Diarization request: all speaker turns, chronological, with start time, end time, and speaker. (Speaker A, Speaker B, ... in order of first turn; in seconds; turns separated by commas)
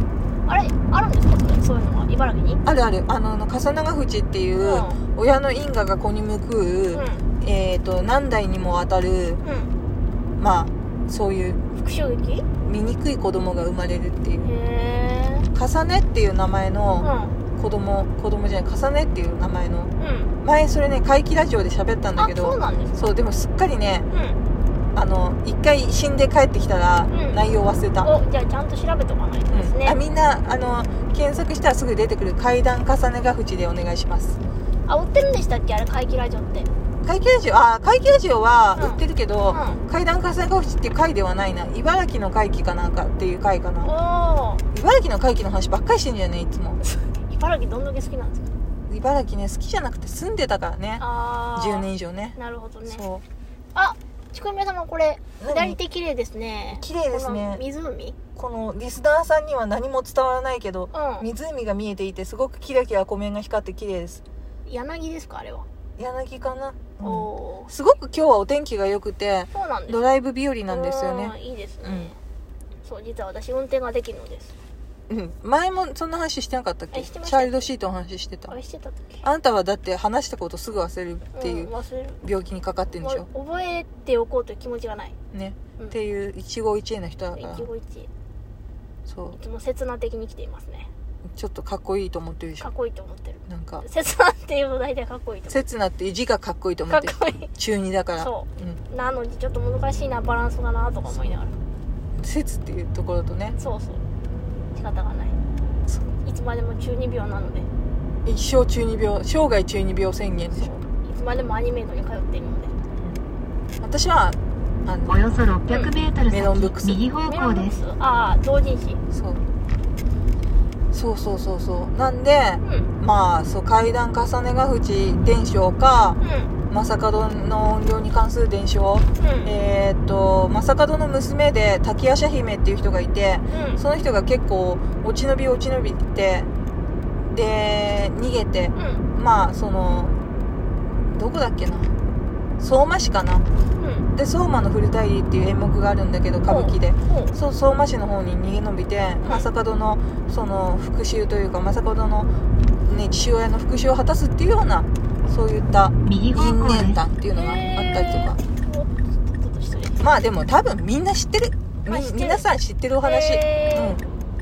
Speaker A: 0.5-2.6, Speaker B: 2.6-9.4, Speaker A: 4.6-5.0, Speaker A: 6.9-7.3, Speaker A: 9.4-9.7, Speaker B: 10.4-11.6, Speaker A: 11.7-12.6, Speaker B: 12.6-14.5, Speaker A: 14.4-15.5, Speaker B: 15.5-19.9, Speaker A: 17.0-17.4, Speaker A: 20.0-20.4, Speaker B: 20.4-24.1, Speaker A: 22.2-23.1, Speaker A: 24.1-24.4, Speaker B: 24.9-28.1, Speaker A: 27.1-27.4, Speaker A: 28.0-30.0, Speaker B: 29.5-34.4, Speaker A: 34.9-36.7, Speaker B: 37.0-43.9, Speaker A: 38.8-39.8, Speaker A: 43.8-44.6, Speaker B: 44.7-46.8, Speaker A: 46.8-48.5, Speaker B: 48.9-52.4, Speaker A: 51.0-53.0, Speaker B: 52.9-53.2, Speaker A: 53.8-58.2, Speaker B: 55.4-55.8, Speaker B: 56.7-57.6, Speaker B: 58.3-64.2, Speaker A: 60.9-61.3, Speaker A: 64.7-65.7, Speaker B: 66.0-72.1, Speaker A: 67.0-67.7, Speaker A: 69.5-70.1, Speaker A: 70.7-72.2, Speaker A: 72.8-74.5, Speaker B: 75.1-78.5, Speaker A: 76.9-77.7, Speaker A: 78.5-79.2, Speaker B: 79.2-81.7, Speaker A: 81.3-82.3, Speaker B: 82.2-83.3, Speaker A: 83.0-85.2, Speaker B: 85.3-87.7, Speaker A: 87.4-88.1, Speaker B: 89.1-89.4, Speaker A: 89.3-90.9, Speaker B: 91.3-92.7, Speaker A: 92.6-95.7, Speaker B: 93.5-93.8, Speaker B: 95.5-98.8, Speaker A: 96.9-97.5, Speaker A: 98.2-101.5, Speaker B: 102.2-103.6, Speaker A: 103.6-104.0, Speaker A: 104.8-105.3, Speaker A: 106.2-107.7, Speaker B: 108.2-110.7, Speaker A: 110.5-112.7, Speaker B: 113.8-115.5, Speaker C: 115.1-117.8, Speaker A: 115.7-116.0, Speaker B: 116.3-117.1, Speaker A: 117.2-119.0, Speaker B: 119.1-119.4, Speaker B: 120.9-126.2, Speaker A: 122.6-122.9, Speaker A: 126.2-126.5, Speaker B: 126.7-136.5, Speaker A: 129.2-129.5, Speaker A: 133.5-133.8, Speaker B: 137.3-140.2, Speaker A: 138.8-139.1, Speaker B: 141.0-141.9, Speaker B: 142.6-143.5, Speaker A: 143.8-144.1, Speaker B: 144.1-152.3, Speaker A: 146.4-147.3, Speaker A: 149.2-149.5, Speaker B: 152.9-158.4, Speaker C: 156.0-157.0, Speaker A: 157.3-160.1, Speaker B: 160.0-164.0, Speaker A: 161.9-162.4, Speaker A: 163.0-164.0